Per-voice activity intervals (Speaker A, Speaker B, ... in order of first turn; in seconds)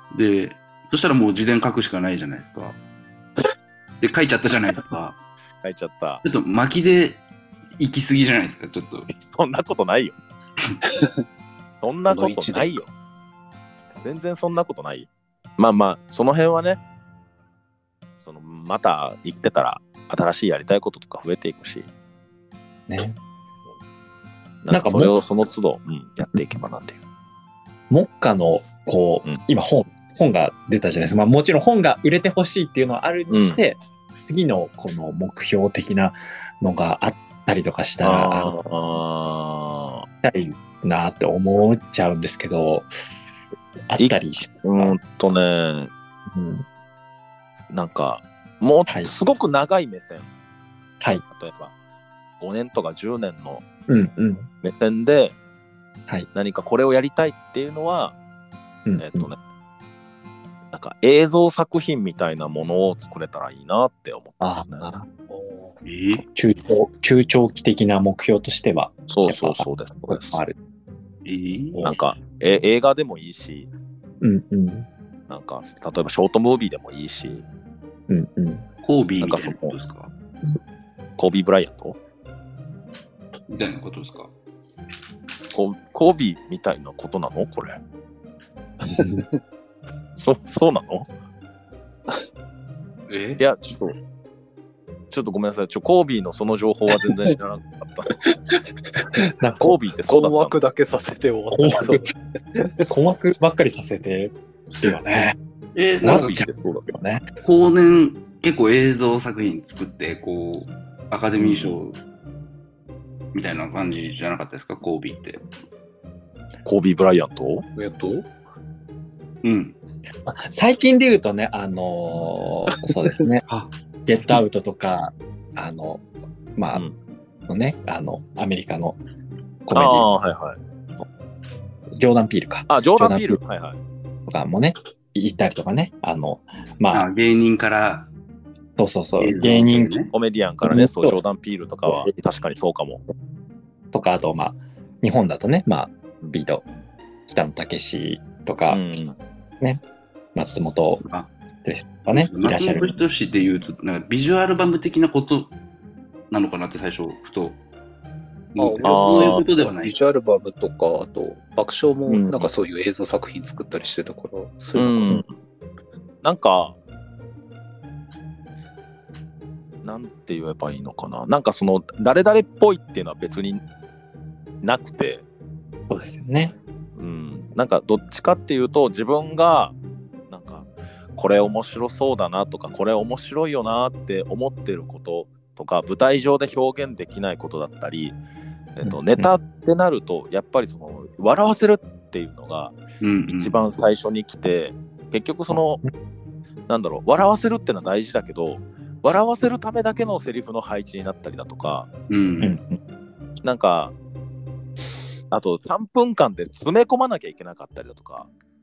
Speaker A: 0.1-2.8, 4.0-5.2, 6.2-7.2, 7.8-9.1, 65.8-66.2, 71.2-71.9, 78.8-80.1, 83.5-84.3, 93.1-93.4, 105.8-106.3, 107.4-112.0, 113.3-115.4, 119.4-119.8, 136.9-138.1, 139.2-140.1, 152.1-155.5, 156.3-157.6, 158.6-160.0, 193.0-193.8, 202.1-202.6
Speaker B: 5.6-6.2, 9.1-10.1, 11.8-12.9, 14.0-16.8, 18.2-21.9, 24.6-27.0, 33.3-33.6, 38.0-40.1, 44.0-45.9, 47.7-50.3, 51.3-51.7, 52.4-53.6, 54.6-55.4, 56.3-58.2, 59.0-59.4, 60.7-64.9, 69.1-70.4, 71.8-73.7, 75.3-77.5, 79.2-79.8, 81.2-82.0, 85.5-87.8, 90.2-91.1, 93.4-94.0, 95.1-98.3, 99.6-100.6, 106.0-106.9, 111.4-111.8, 116.7-117.7, 129.7-130.6, 132.7-133.8, 140.1-143.0, 148.7-149.2, 158.8-159.4, 162.1-162.5, 164.8-165.3, 166.2-166.8, 169.8-173.6, 174.6-175.2, 177.0-179.7, 180.3-188.2, 188.8-192.8, 193.3-195.8, 196.7-201.9, 203.4-203.9, 205.3-208.3
Speaker C: 10.9-11.1, 12.1-12.8, 65.3-65.8, 100.1-102.7, 117.8-118.3, 158.6-165.2
Speaker D: 22.9-23.2, 24.7-25.2, 27.9-38.5, 40.2-42.9, 43.9-45.0, 46.3-46.7, 53.9-54.5, 58.9-59.3, 64.4-65.1, 66.2-70.6, 74.2-74.9, 78.1-78.6, 88.8-89.3, 99.0-99.7, 101.5-102.1, 102.9-105.4, 106.0-107.2, 120.3-123.5, 124.1-126.0, 126.6-126.8, 127.5-129.0, 129.7-130.1, 132.0-133.4, 134.3-137.1, 138.8-139.9, 140.7-141.2, 141.8-142.2, 143.9-146.6, 147.3-148.8, 150.3-151.1, 151.6-152.9, 175.9-176.5, 188.8-189.3, 202.4-202.8